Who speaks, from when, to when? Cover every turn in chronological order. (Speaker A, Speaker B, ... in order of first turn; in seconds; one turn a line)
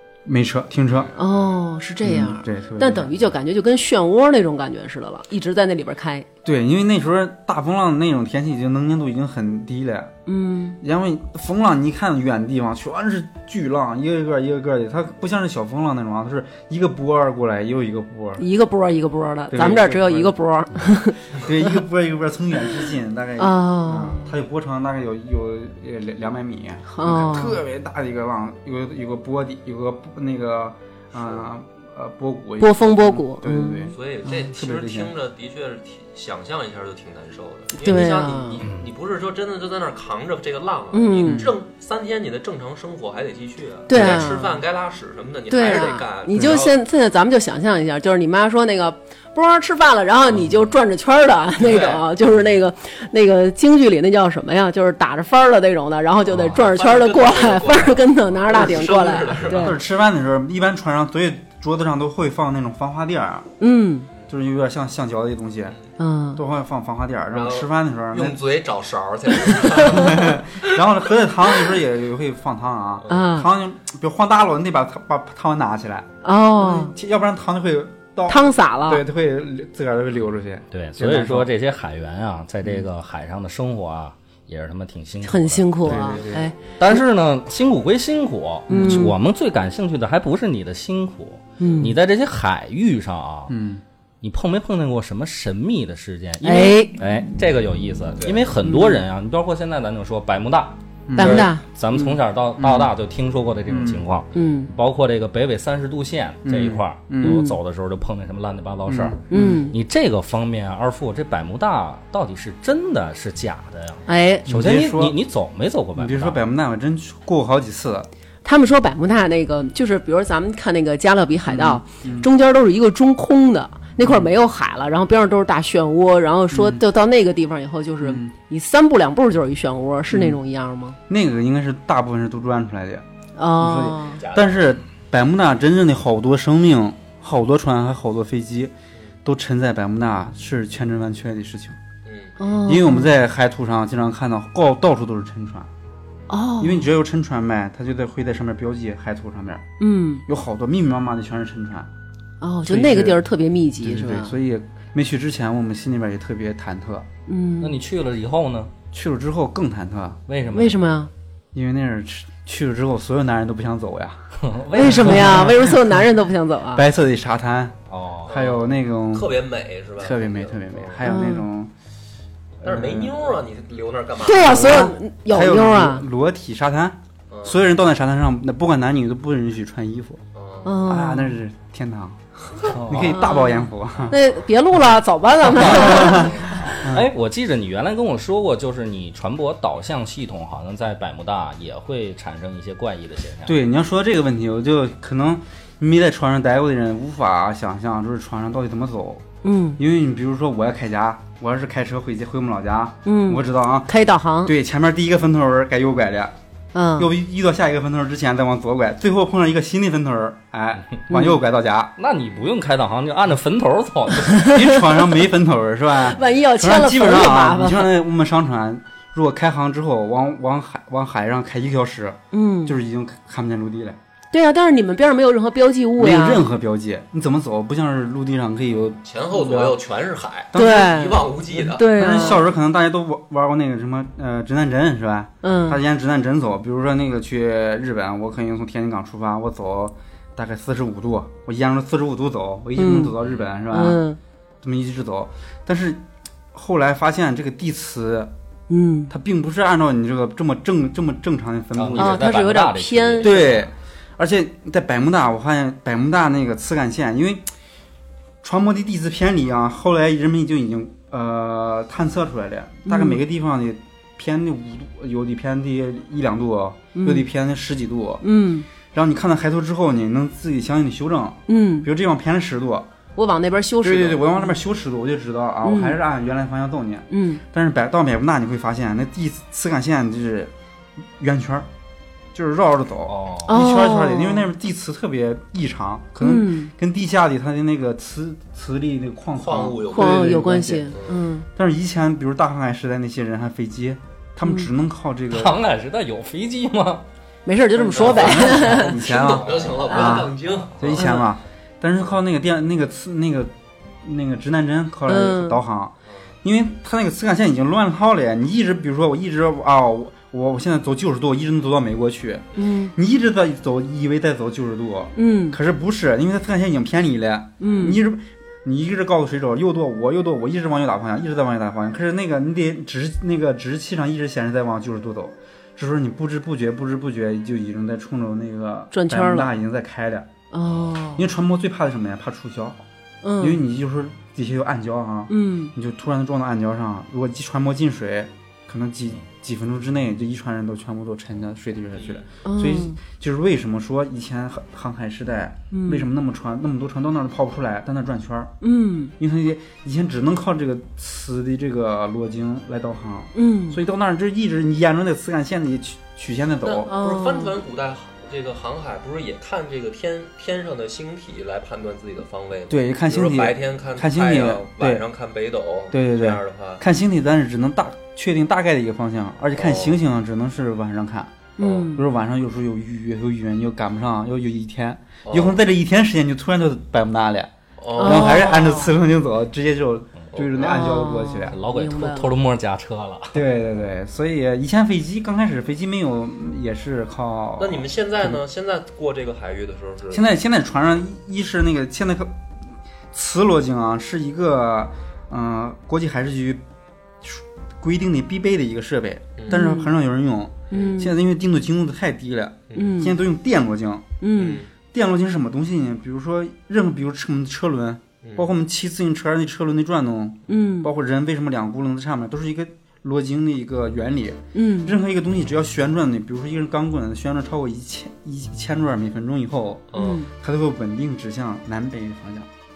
Speaker A: 0.2-1.1
Speaker B: 1.0-1.5
Speaker C: 1.2-6.3
Speaker A: 2.0-3.3
Speaker A: 6.5-10.1
Speaker C: 10.3-10.8
Speaker A: 10.8-18.4
Speaker C: 18.4-21.8
Speaker A: 19.5-20.4
Speaker A: 21.3-35.1
Speaker C: 23.4-24.3
Speaker C: 26.9-27.6
Speaker B: 31.1-31.4
Speaker C: 32.6-34.5
Speaker B: 33.9-46.8
Speaker C: 37.8-38.6
Speaker D: 38.6-38.9
Speaker C: 40.9-41.5
Speaker A: 41.2-41.5
Speaker C: 43.9-44.6
Speaker A: 44.0-44.2
Speaker C: 45.5-59.8
Speaker A: 46.3-46.6
Speaker B: 51.6-52.0
Speaker B: 56.5-59.8
Speaker A: 59.5-63.5
Speaker C: 63.6-64.1
Speaker A: 64.3-65.8
Speaker C: 66.0-66.4
Speaker A: 66.3-68.4
Speaker B: 67.3-70.8
Speaker C: 69.5-70.2
Speaker A: 69.8-81.5
Speaker B: 73.0-73.3
Speaker C: 73.1-73.5
Speaker C: 76.2-76.9
Speaker C: 78.3-79.0
Speaker D: 80.7-86.1
Speaker A: 82.6-82.9
Speaker C: 85.2-87.0
Speaker A: 85.8-86.5
Speaker D: 86.8-93.5
Speaker A: 88.7-89.1
Speaker C: 88.7-89.1
Speaker C: 91.6-92.0
Speaker A: 93.5-93.8
Speaker D: 94.2-116.4
Speaker C: 96.4-97.0
Speaker B: 98.2-98.5
Speaker C: 98.7-99.0
Speaker A: 101.1-102.9
Speaker C: 101.2-101.6
Speaker A: 103.7-104.1
Speaker C: 104.3-104.7
Speaker A: 106.5-107.4
Speaker C: 107.2-107.6
Speaker A: 108.9-109.6
Speaker C: 109.3-109.7
Speaker C: 114.1-114.5
Speaker A: 114.5-115.2
Speaker A: 116.0-118.1
Speaker C: 118.4-131.0
Speaker A: 121.5-122.3
Speaker A: 124.0-124.3
Speaker A: 126.5-126.8
Speaker A: 128.0-128.3
Speaker A: 130.1-130.4
Speaker A: 131.1-133.1
Speaker C: 133.4-134.2
Speaker A: 133.6-138.7
Speaker B: 134.2-134.8
Speaker A: 139.2-141.8
Speaker B: 142.1-142.4
Speaker C: 142.4-143.1
Speaker A: 142.7-145.7
Speaker C: 146.3-146.9
Speaker A: 146.6-149.6
Speaker C: 149.8-150.2
Speaker A: 150.3-151.9
Speaker C: 152.4-154.3
Speaker A: 152.7-153.2
Speaker A: 153.8-157.1
Speaker C: 157.3-157.8
Speaker D: 157.6-158.7
Speaker A: 158.9-160.2
Speaker D: 160.3-160.8
Speaker C: 160.5-161.1
Speaker A: 161.5-164.3
Speaker D: 164.4-165.5
Speaker C: 164.7-166.8
Speaker A: 164.8-166.1
Speaker A: 166.7-167.8
Speaker D: 167.9-168.4
Speaker B: 168.3-171.0
Speaker A: 168.3-169.3
Speaker A: 170.0-171.7
Speaker C: 171.0-171.5
Speaker A: 172.6-173.3
Speaker B: 172.6-174.9
Speaker C: 174.2-176.0
Speaker A: 174.5-180.2
Speaker B: 177.3-177.6
Speaker B: 180.3-180.8
Speaker C: 180.7-181.4
Speaker A: 180.9-184.2
Speaker D: 182.7-183.3
Speaker C: 182.9-186.7
Speaker D: 185.5-193.6
Speaker A: 185.5-187.1
Speaker B: 186.1-186.6
Speaker A: 193.4-199.2
Speaker C: 199.4-199.8
Speaker A: 199.8-203.9
Speaker C: 203.1-204.5
Speaker A: 204.4-206.3
Speaker C: 206.7-207.1
Speaker A: 207.0-212.0
Speaker C: 211.1-211.4
Speaker D: 212.0-214.6
Speaker A: 214.5-224.0
Speaker C: 216.1-217.9
Speaker C: 222.3-222.8
Speaker C: 224.3-226.5
Speaker A: 226.0-229.8
Speaker B: 229.0-232.2
Speaker A: 230.5-230.9
Speaker C: 230.6-232.4
Speaker A: 231.6-244.0
Speaker C: 235.4-235.8
Speaker C: 242.8-243.2
Speaker C: 243.7-244.2
Speaker A: 244.6-248.3
Speaker C: 248.7-249.1
Speaker A: 249.1-252.2
Speaker D: 251.8-253.7
Speaker C: 252.0-253.5
Speaker A: 253.2-257.5
Speaker A: 258.4-268.2
Speaker C: 262.9-263.2
Speaker C: 266.9-267.2
Speaker C: 268.2-268.7
Speaker A: 268.9-272.9
Speaker C: 271.5-271.9
Speaker C: 273.2-274.5
Speaker A: 273.8-280.5
Speaker C: 275.6-276.0
Speaker C: 277.1-277.4
Speaker A: 281.2-281.7
Speaker A: 282.3-290.9
Speaker D: 283.1-283.6
Speaker C: 283.5-284.5
Speaker C: 286.2-286.7
Speaker B: 289.4-290.3
Speaker C: 289.9-291.5
Speaker A: 291.6-295.6
Speaker C: 294.4-294.7
Speaker D: 295.3-297.1
Speaker C: 297.5-299.1
Speaker A: 297.8-330.3
Speaker B: 298.0-301.2
Speaker C: 299.9-300.3
Speaker C: 301.0-301.2
Speaker C: 305.1-305.6
Speaker C: 312.6-312.9
Speaker C: 315.2-315.6
Speaker C: 317.6-318.0
Speaker C: 328.9-329.5
Speaker C: 330.5-331.3
Speaker A: 331.2-332.8
Speaker C: 333.2-333.6
Speaker A: 333.4-348.5
Speaker C: 335.3-335.7
Speaker B: 341.9-342.2
Speaker C: 342.4-343.0
Speaker C: 345.7-346.1
Speaker C: 348.6-349.1
Speaker A: 349.2-356.9
Speaker C: 353.4-353.8
Speaker B: 356.6-366.8
Speaker C: 356.9-357.6
Speaker A: 362.7-365.0
Speaker A: 365.9-371.3
Speaker B: 369.6-370.0
Speaker C: 371.6-372.0
Speaker B: 371.6-371.9
Speaker A: 371.9-381.6
Speaker B: 375.2-375.6
Speaker B: 377.8-378.5
Speaker C: 378.0-378.9
Speaker B: 380.3-380.8
Speaker C: 380.6-382.4
Speaker D: 381.5-383.4
Speaker A: 383.3-388.4
Speaker B: 387.6-390.3
Speaker A: 390.1-392.4
Speaker A: 393.1-396.6
Speaker A: 397.2-404.1
Speaker C: 399.5-399.9
Speaker C: 400.7-401.2
Speaker B: 400.7-401.0
Speaker B: 402.7-403.0
Speaker C: 402.8-403.2
Speaker C: 404.2-404.6
Speaker B: 404.4-404.7
Speaker A: 404.9-422.5
Speaker B: 408.2-408.5
Speaker C: 410.5-410.9
Speaker C: 414.5-415.0
Speaker B: 419.9-420.2
Speaker C: 420.0-420.3